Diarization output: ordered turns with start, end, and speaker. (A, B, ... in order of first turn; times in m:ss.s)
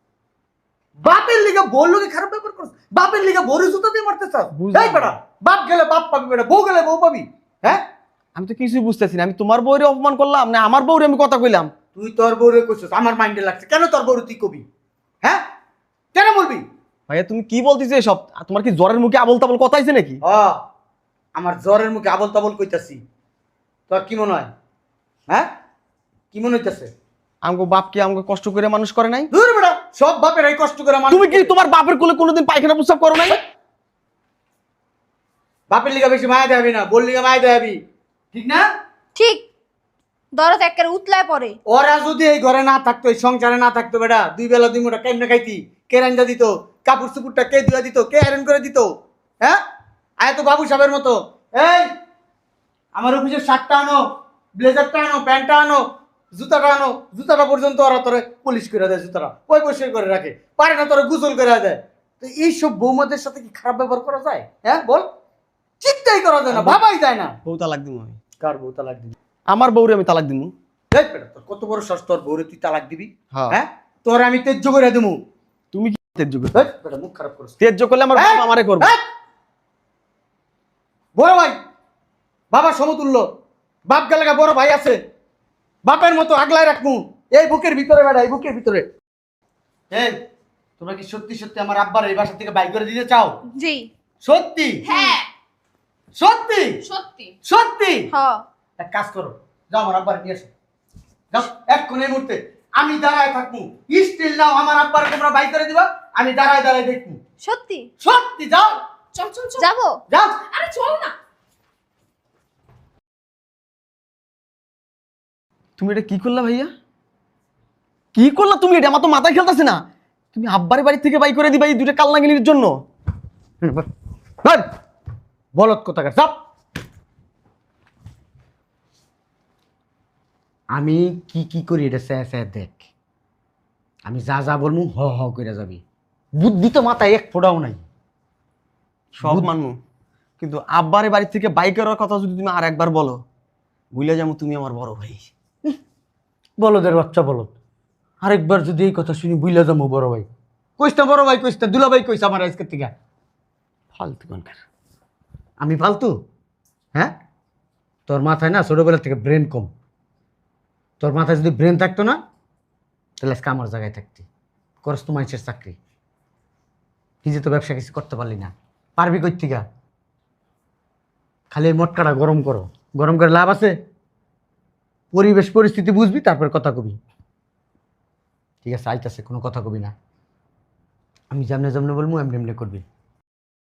0:01.0-0:07.8 A
0:04.5-0:05.1 B
0:08.4-0:11.7 B
0:12.0-0:14.6 A
0:16.1-0:16.6 A
0:17.1-0:20.2 B
0:20.2-0:20.6 A
0:21.4-0:23.0 A
0:23.9-0:24.5 A
0:26.3-0:26.9 A
0:27.4-0:29.3 B
0:29.3-0:31.6 A
0:31.1-0:33.4 B
0:35.7-0:37.8 A
0:38.3-0:38.7 A
0:39.2-0:39.4 C
0:40.3-0:41.6 C
0:41.7-0:48.9 A
0:50.2-0:51.9 A
0:52.9-0:54.0 A
0:54.6-1:05.1 A
1:05.8-1:07.4 A
1:06.5-1:06.8 B
1:07.4-1:08.2 B
1:08.4-1:09.2 A
1:09.5-1:10.5 B
1:10.9-1:15.2 A
1:13.3-1:13.6 B
1:15.7-1:16.6 B
1:16.6-1:17.6 A
1:17.6-1:18.9 B
1:18.2-1:19.0 A
1:21.2-1:21.6 A
1:22.5-1:23.2 A
1:23.9-1:25.0 A
1:25.8-1:28.9 A
1:29.9-1:30.2 A
1:30.8-1:33.4 A
1:33.6-1:33.9 C
1:34.2-1:34.8 A
1:34.9-1:35.2 D
1:34.9-1:35.2 C
1:36.2-1:36.8 A
1:36.8-1:37.3 D
1:37.4-1:38.1 A
1:38.1-1:38.4 C
1:38.8-1:40.5 A
1:41.3-1:47.2 A
1:47.4-1:47.9 C
1:48.0-1:48.8 A
1:49.2-1:49.7 D
1:49.6-1:50.0 C
1:50.1-1:50.4 A
1:50.5-1:51.1 D
1:55.8-1:56.7 B
1:58.1-1:59.8 B
2:00.3-2:02.8 B
2:05.6-2:06.4 A
2:10.7-2:12.8 A
2:14.1-2:15.8 A
2:16.4-2:17.8 A
2:19.2-2:19.5 A
2:19.2-2:19.8 B
2:20.4-2:23.2 B
2:23.9-2:25.3 B
2:26.6-2:27.5 A
2:28.2-2:30.3 A
2:30.8-2:32.9 A
2:34.0-2:34.6 B
2:35.6-2:36.1 A
2:38.1-2:39.7 A
2:41.0-2:42.2 A
2:43.2-2:44.3 A
2:44.8-2:45.8 A
2:47.2-2:49.6 A
2:51.5-2:53.8 A
2:55.1-2:57.0 A
2:58.6-2:59.9 A
3:01.3-3:02.8 A